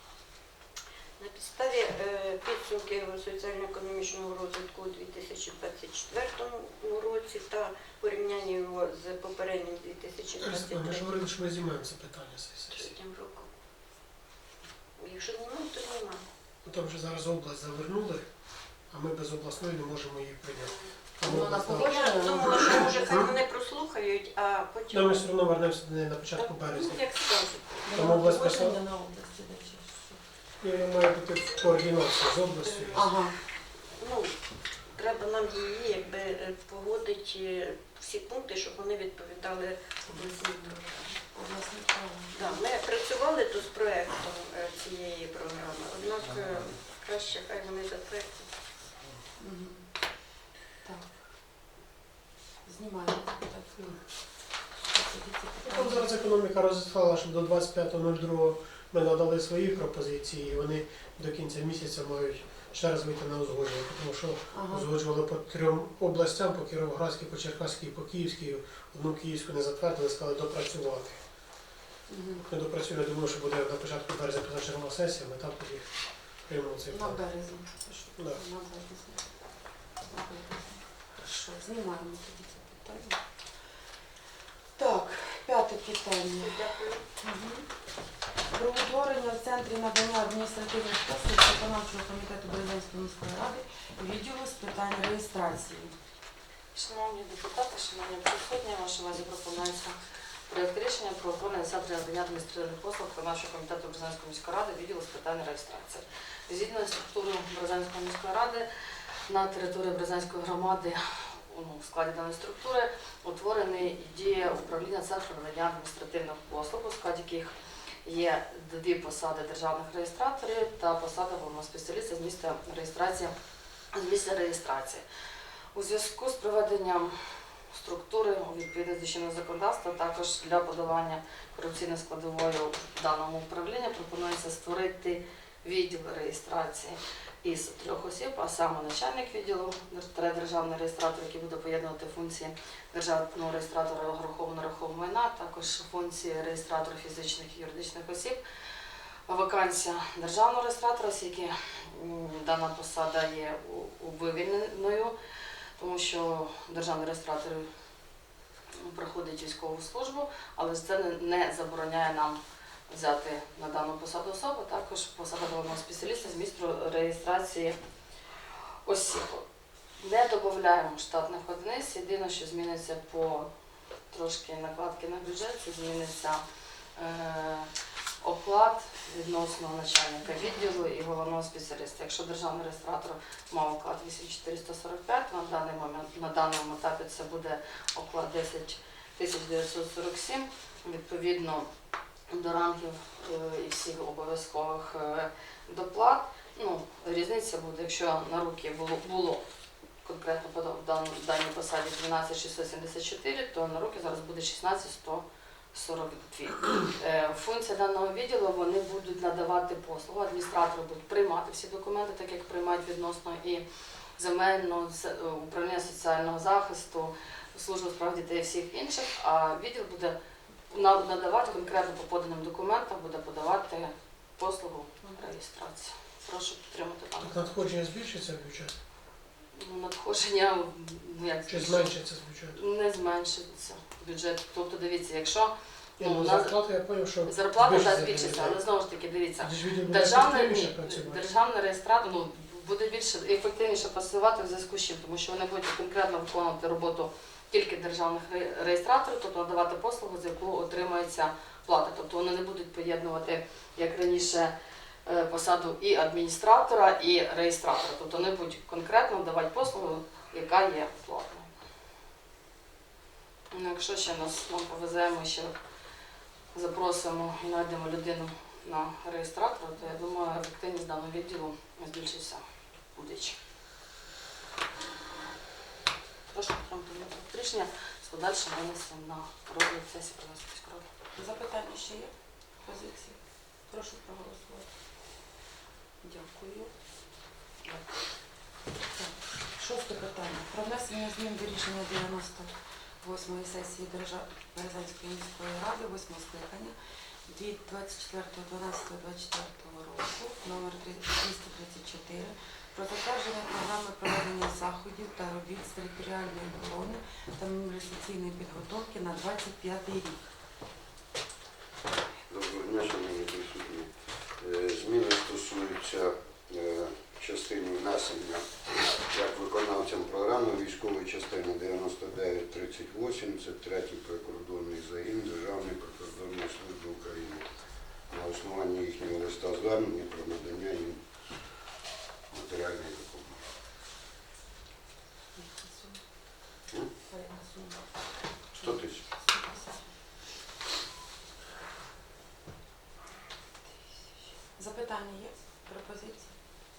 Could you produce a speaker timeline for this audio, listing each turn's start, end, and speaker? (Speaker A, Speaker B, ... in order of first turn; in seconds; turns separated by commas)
Speaker A: 1.2-11.2, Speaker B: 10.4-12.9, Speaker A: 12.7-13.5, Speaker A: 15.0-16.2, Speaker B: 16.6-18.3, Speaker B: 18.9-23.3, Speaker C: 21.2-22.8, Speaker A: 21.7-25.2, Speaker B: 24.9-27.0, Speaker A: 26.4-27.9, Speaker C: 27.8-30.2, Speaker B: 27.9-28.8, Speaker B: 30.6-33.0, Speaker A: 32.6-33.1, Speaker C: 32.9-33.3, Speaker A: 34.0-34.3, Speaker A: 34.9-41.1, Speaker C: 41.3-42.6, Speaker A: 42.3-48.5, Speaker C: 49.4-49.8, Speaker C: 50.8-51.2, Speaker C: 52.6-54.0, Speaker C: 54.8-56.1, Speaker B: 55.7-71.2, Speaker C: 64.5-64.9, Speaker C: 72.1-72.5, Speaker B: 72.5-75.9, Speaker B: 76.5-77.2, Speaker C: 76.9-79.2, Speaker C: 80.0-83.2, Speaker C: 84.8-86.6, Speaker A: 86.4-87.0, Speaker C: 87.2-87.7, Speaker C: 88.5-95.9, Speaker D: 96.7-100.0, Speaker D: 100.5-108.7, Speaker D: 109.3-117.5, Speaker D: 118.0-123.3, Speaker D: 123.9-125.0, Speaker D: 125.7-148.4, Speaker D: 149.3-155.1, Speaker D: 155.8-157.7, Speaker D: 158.8-167.8, Speaker D: 168.8-169.4, Speaker D: 170.0-173.5, Speaker D: 174.1-176.4, Speaker D: 176.9-177.7, Speaker D: 178.2-191.7, Speaker C: 180.3-180.6, Speaker D: 192.3-199.4, Speaker D: 200.0-213.7, Speaker D: 214.2-220.2, Speaker D: 220.7-227.5, Speaker B: 227.2-228.7, Speaker D: 229.5-231.9, Speaker B: 231.5-232.6, Speaker D: 232.5-236.6, Speaker B: 236.0-238.6, Speaker D: 237.2-254.5, Speaker B: 239.4-241.3, Speaker D: 255.1-261.5, Speaker D: 263.5-265.5, Speaker D: 266.5-272.4, Speaker D: 272.9-273.4, Speaker D: 276.3-280.8, Speaker C: 281.2-282.1, Speaker C: 282.6-284.7, Speaker C: 286.0-286.7, Speaker C: 288.9-292.5, Speaker C: 293.0-296.7, Speaker C: 297.3-310.2, Speaker E: 312.3-327.5, Speaker E: 328.1-331.0, Speaker E: 332.3-333.4, Speaker C: 335.4-336.0, Speaker C: 337.1-337.9, Speaker C: 338.5-339.8, Speaker E: 338.6-339.0, Speaker C: 344.4-346.3